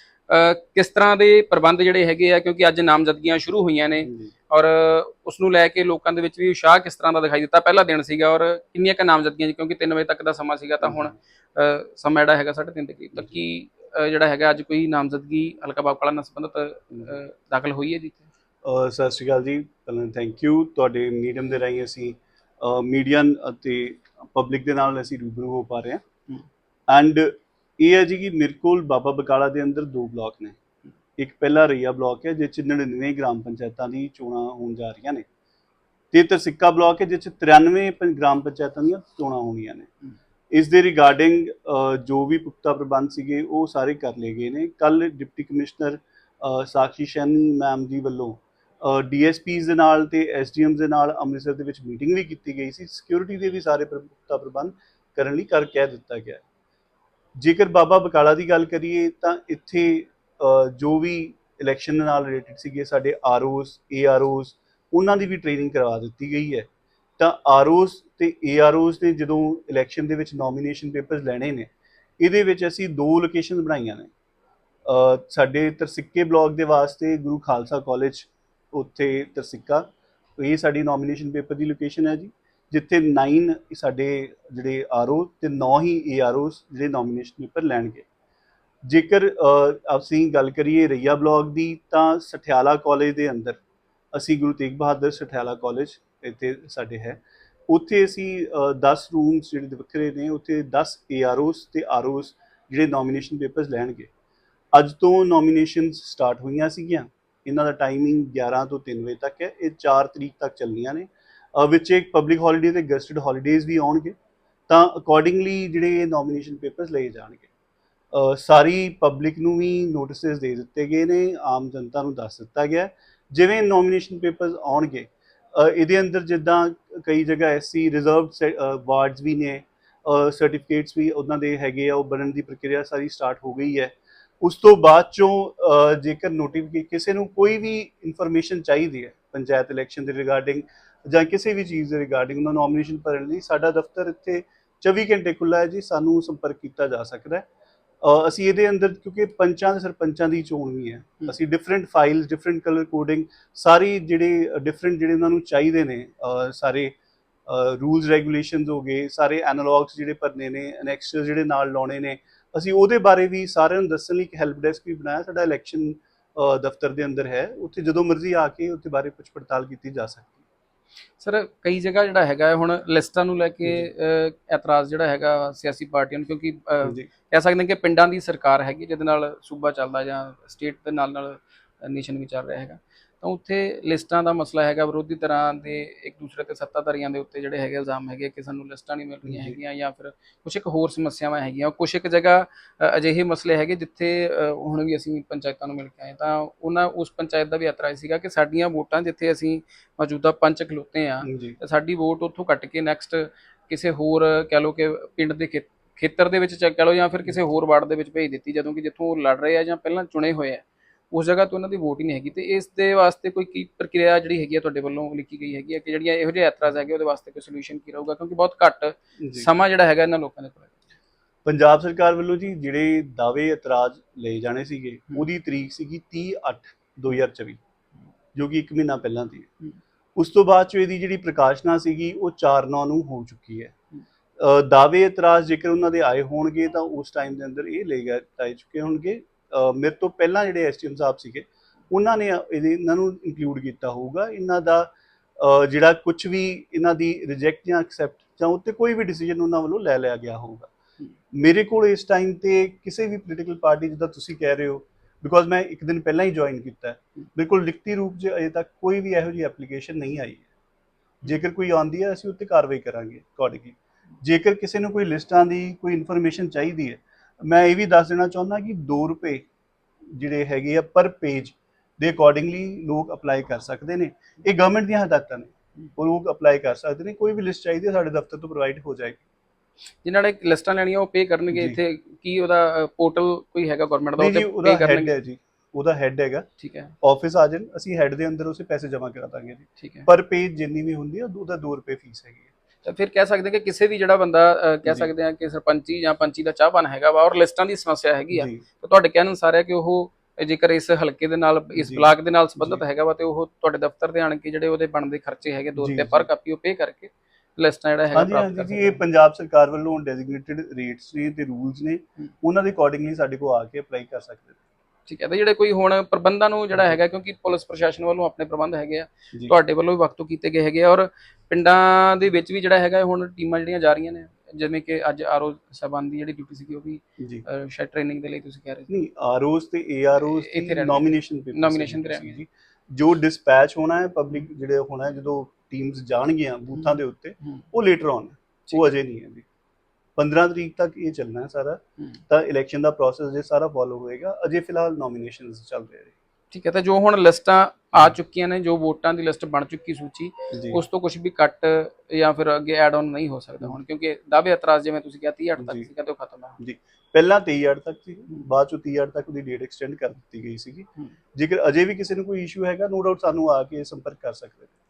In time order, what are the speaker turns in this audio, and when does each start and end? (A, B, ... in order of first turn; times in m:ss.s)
0:00.3-0:18.3 A
0:04.0-0:04.3 B
0:10.8-0:11.1 B
0:18.6-0:26.0 B
0:26.9-0:30.6 B
0:31.2-0:35.2 B
0:36.1-0:39.9 B
0:40.5-0:56.4 B
0:57.4-1:06.7 B
1:07.2-1:14.1 B
1:14.8-1:19.9 B
1:20.4-1:28.0 B
1:28.8-1:33.6 B
1:34.1-1:44.1 B
1:44.7-1:54.1 B
1:54.7-1:57.5 B
1:58.1-2:27.4 B
2:28.0-2:36.9 B
2:37.5-2:50.4 B
2:51.2-3:40.8 A
2:53.6-2:53.9 B
2:56.8-2:57.1 B
3:09.2-3:09.6 B
3:21.2-3:21.6 B
3:39.2-3:39.5 B
3:41.4-3:47.6 B
3:48.3-3:49.5 B
3:50.2-3:53.7 B
3:54.4-4:10.7 B
4:11.3-4:20.5 B
4:21.2-4:29.4 B
4:30.1-4:39.2 B
4:40.0-4:45.1 A
4:41.5-4:41.8 B
4:44.2-4:46.5 B
4:46.6-4:46.9 A
4:47.0-4:52.5 B
4:49.8-4:50.1 A
4:52.8-5:09.0 A
4:58.3-4:58.6 B
5:01.8-5:02.8 B
5:05.8-5:06.3 B
5:08.1-5:14.6 B
5:15.1-5:29.0 A
5:27.2-5:27.4 B
5:28.9-5:39.4 B
5:30.2-5:32.4 A
5:40.2-5:46.1 B
5:46.5-5:56.6 A
5:50.5-5:50.8 B
5:55.6-5:55.9 B
5:56.6-6:04.7 B